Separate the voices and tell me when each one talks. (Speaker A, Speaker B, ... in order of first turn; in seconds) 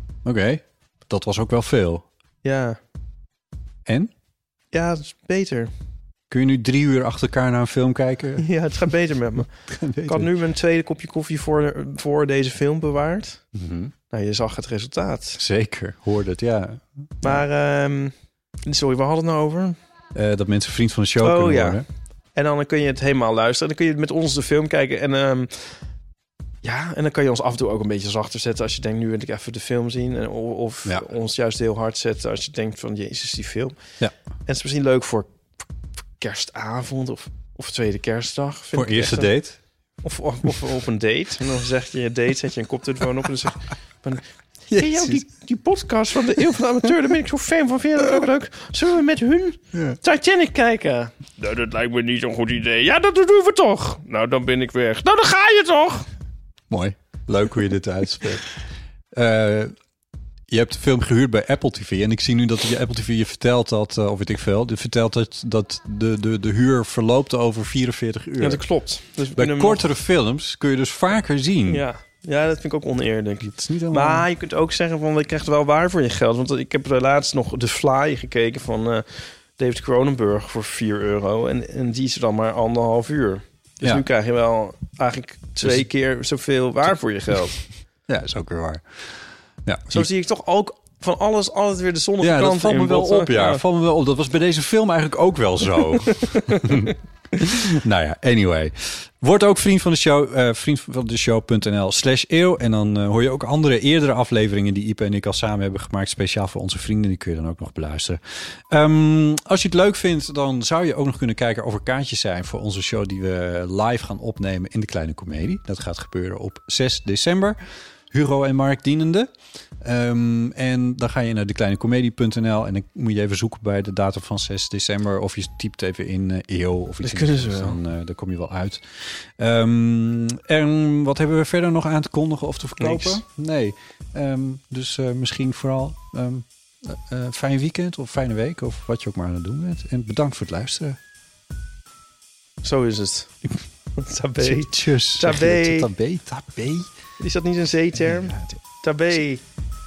Speaker A: 0.2-2.0, 3.9-4.1, 6.3-8.4, 9.7-10.3, 13.6-13.9, 15.4-17.4, 20.1-21.9, 38.7-39.6, 44.7-45.2, 56.7-58.5, 59.1-59.7, 60.5-68.6, 69.3-71.8, 73.4-74.3, 85.6-85.9, 88.1-89.0, 89.7-90.1, 92.2-117.6, 118.1-119.3, 119.8-141.0, 144.4-146.9, 148.0-148.6
Speaker B: 2.4-2.8, 4.7-5.7, 8.4-9.5, 10.1-13.4, 14.1-15.4, 17.2-18.1, 18.6-19.8, 21.2-21.8, 22.4-25.7, 26.6-33.8, 34.5-35.4, 36.2-39.3, 40.0-56.1, 68.4-69.9, 71.7-87.6, 89.9-93.6, 96.2-96.9, 127.0-127.8, 132.8-133.2, 142.6-143.4, 143.9-145.9, 147.2-149.4